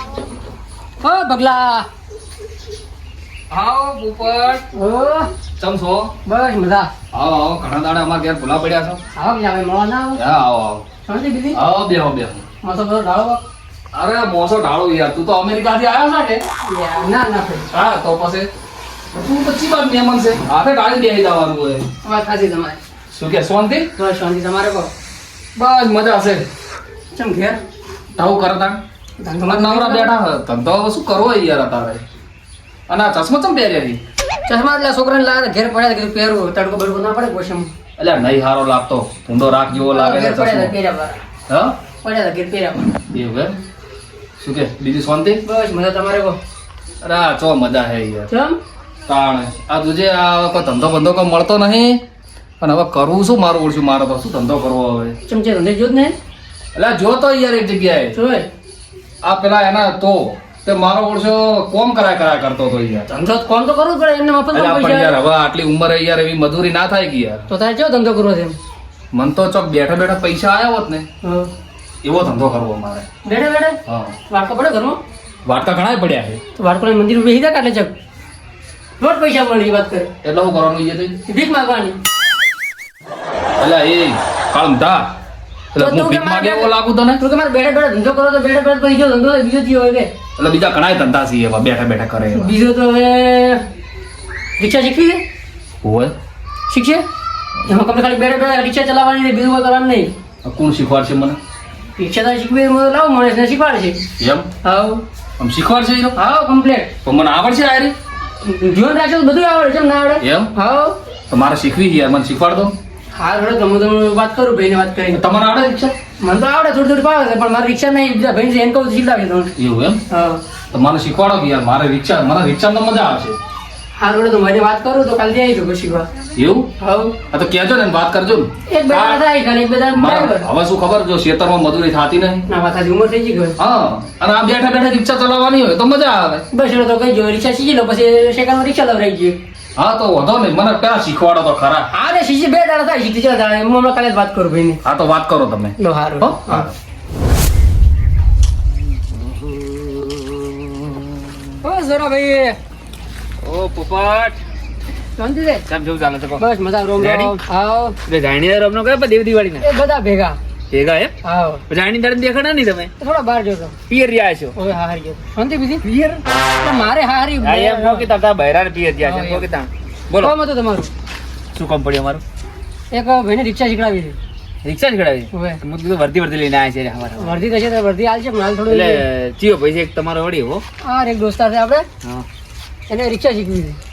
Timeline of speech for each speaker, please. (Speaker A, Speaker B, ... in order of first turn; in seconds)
Speaker A: 1.0-1.9, 4.7-5.3, 6.2-6.9, 9.1-10.2, 11.1-11.6, 12.6-13.4, 16.6-17.7, 22.0-22.8, 23.9-24.9, 27.1-27.6, 29.2-30.1, 34.5-37.7, 39.9-41.2, 42.0-42.9, 45.5-46.4, 48.3-48.6, 55.3-56.2, 58.1-58.5, 63.1-65.2, 67.5-68.6, 71.2-71.5, 73.2-75.0, 76.6-78.0, 79.0-80.1, 81.3-82.0, 85.8-90.1, 92.3-93.7, 94.6-95.2, 96.7-97.0, 97.7-100.1, 102.0-104.0, 104.6-105.0, 106.2-106.9, 108.4-111.0, 113.2-115.2, 116.2-119.5, 120.1-120.4, 124.0-126.1, 126.8-127.2, 128.7-130.5, 132.5-133.6, 136.5-139.4, 141.9-144.8, 145.8-146.7, 151.6-152.6, 155.2-155.6, 156.4-158.0, 159.6-160.4, 161.2-161.6, 163.0-163.8, 164.6-165.8, 166.6-168.1, 169.0-169.5, 170.2-170.9, 172.9-174.2, 175.3-175.6, 177.2-179.0, 180.8-181.9, 182.9-183.8
Speaker B: 3.5-4.7, 5.6-6.1, 7.1-9.0, 10.2-10.9, 11.5-12.4, 13.9-16.4, 17.7-18.5, 19.1-21.9, 23.1-23.9, 25.6-26.5, 28.1-28.8, 29.4-32.0, 32.9-34.0, 38.0-40.7, 41.5-41.8, 43.1-43.6, 44.4-45.4, 47.0-48.3, 49.1-52.0, 52.6-55.2, 56.7-58.1, 59.2-63.1, 64.5-67.5, 69.1-71.1, 72.0-73.1, 73.9-74.2, 75.5-76.4, 80.2-81.2, 83.6-85.2, 85.7-87.2, 90.4-92.5, 95.8-96.2, 100.4-101.4, 104.2-104.5, 105.4-106.2, 107.0-108.0, 110.2-110.5, 111.3-112.8, 115.1-116.0, 119.6-120.0, 120.7-123.4, 126.4-126.7, 127.3-129.2, 129.9-132.4, 133.6-136.4, 139.8-141.9, 144.8-146.8
Speaker C: 148.9-151.2, 153.4-154.4, 155.7-156.4, 157.0-157.3, 158.1-159.7, 160.7-161.1, 161.7-162.9, 163.9-164.5, 165.8-166.2, 167.4-170.3, 171.5-172.2, 174.6-177.4, 178.7-180.6